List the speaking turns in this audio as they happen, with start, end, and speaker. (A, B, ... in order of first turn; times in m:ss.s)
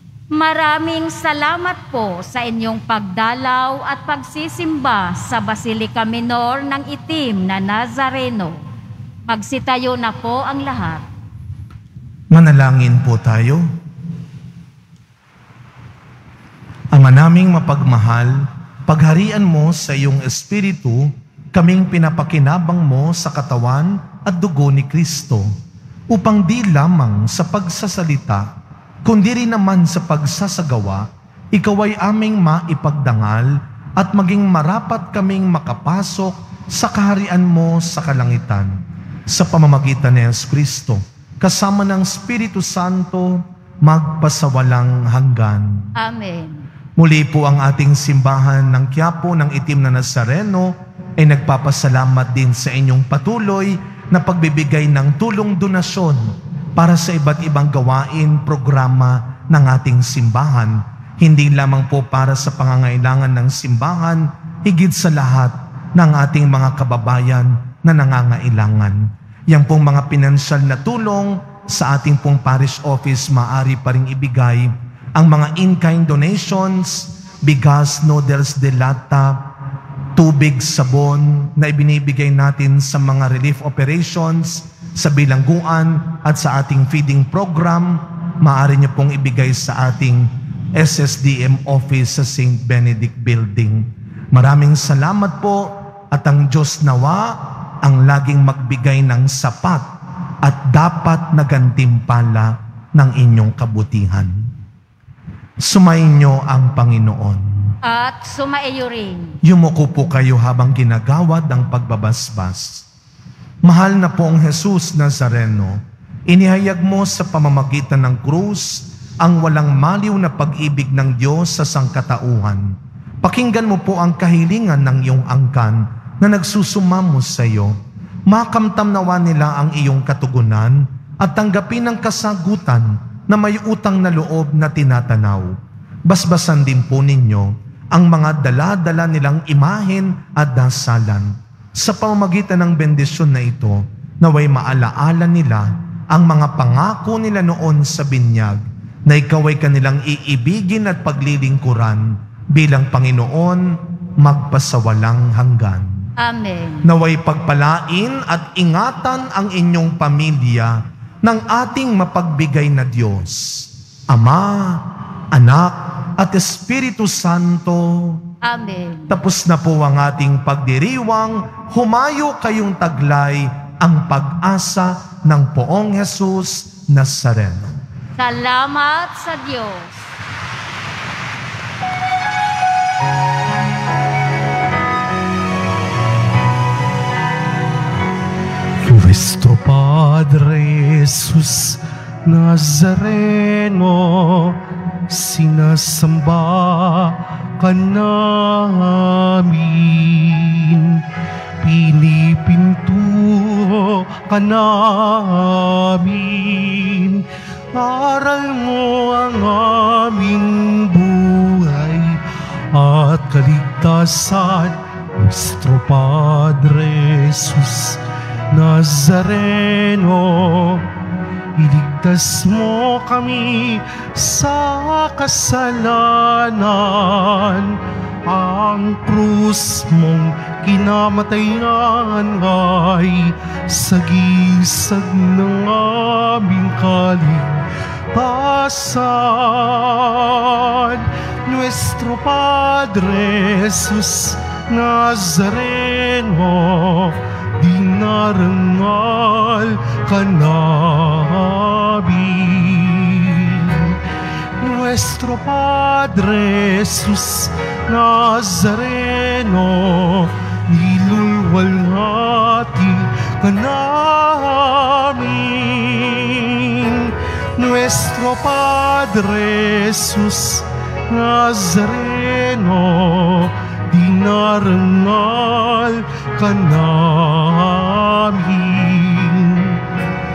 0:00.3-0:08.6 A
0:09.3-0:11.0 A
0:12.3-0:13.6 B
0:16.9-0:25.5 B
0:26.1-0:28.5 B
0:29.0-0:45.9 B
0:46.0-0:46.7 A
0:47.0-1:19.4 B
1:20.1-1:39.9 B
1:40.4-1:44.5 B
1:45.6-1:47.7 B
1:47.8-1:49.4 A
1:49.4-1:52.9 B
1:53.6-2:07.7 B
2:08.3-2:36.0 B
2:36.2-2:36.9 A
2:36.8-2:48.2 B
2:48.4-2:49.2 A
2:49.1-2:57.8 B
2:58.2-3:00.0 A
3:08.8-3:21.0 C
3:21.6-3:40.9 C
3:41.6-4:14.0 C
4:14.6-4:39.8 C